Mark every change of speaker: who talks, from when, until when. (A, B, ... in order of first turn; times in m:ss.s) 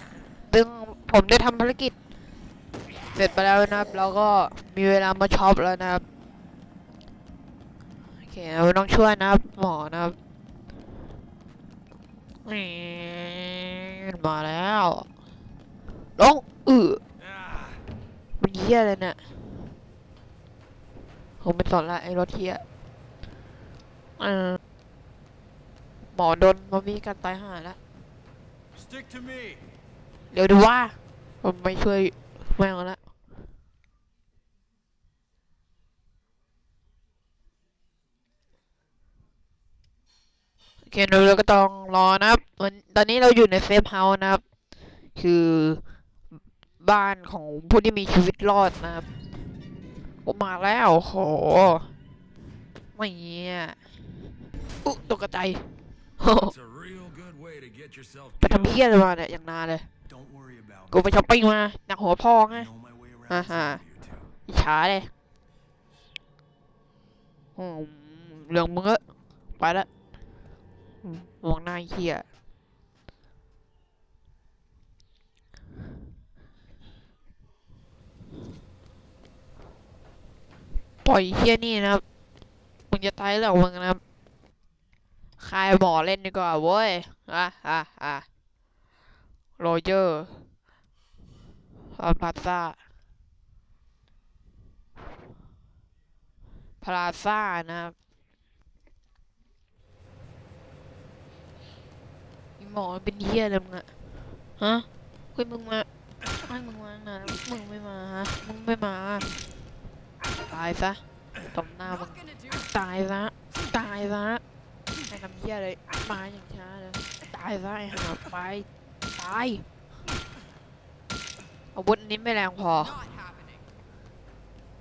0:00.5-0:01.9 A
0:03.1-0:06.0 A
0:08.2-0:10.2 A
0:12.4-0:15.1 A
0:16.2-0:17.0 A
0:17.3-0:17.8 B
0:18.4-0:19.4 A
0:21.4-0:22.6 A
0:24.2-0:24.6 A
0:26.1-0:27.8 A
0:28.7-0:29.6 B
0:30.3-0:33.0 A
0:40.8-0:44.4 A
0:45.1-0:45.8 A
0:46.8-0:49.1 A
0:50.2-0:51.9 A
0:52.9-0:53.8 A
0:54.8-0:56.5 A
0:56.5-0:58.5 B
0:58.4-0:59.9 A
1:00.1-1:00.9 B
1:00.9-1:02.7 A
1:02.7-1:04.3 B
1:03.3-1:03.8 A
1:04.5-1:05.1 A
1:07.6-1:09.0 A
1:09.6-1:09.9 A
1:11.0-1:12.2 A
1:21.0-1:22.0 A
1:22.9-1:24.0 A
1:25.4-1:28.2 A
1:29.6-1:30.5 A
1:31.8-1:32.8 A
1:36.8-1:37.9 A
1:42.6-1:43.9 A
1:44.5-1:45.9 A
1:46.4-1:49.4 A
1:50.5-1:51.0 A
1:51.5-1:54.4 A
1:55.1-1:59.6 A
2:01.7-2:03.4 A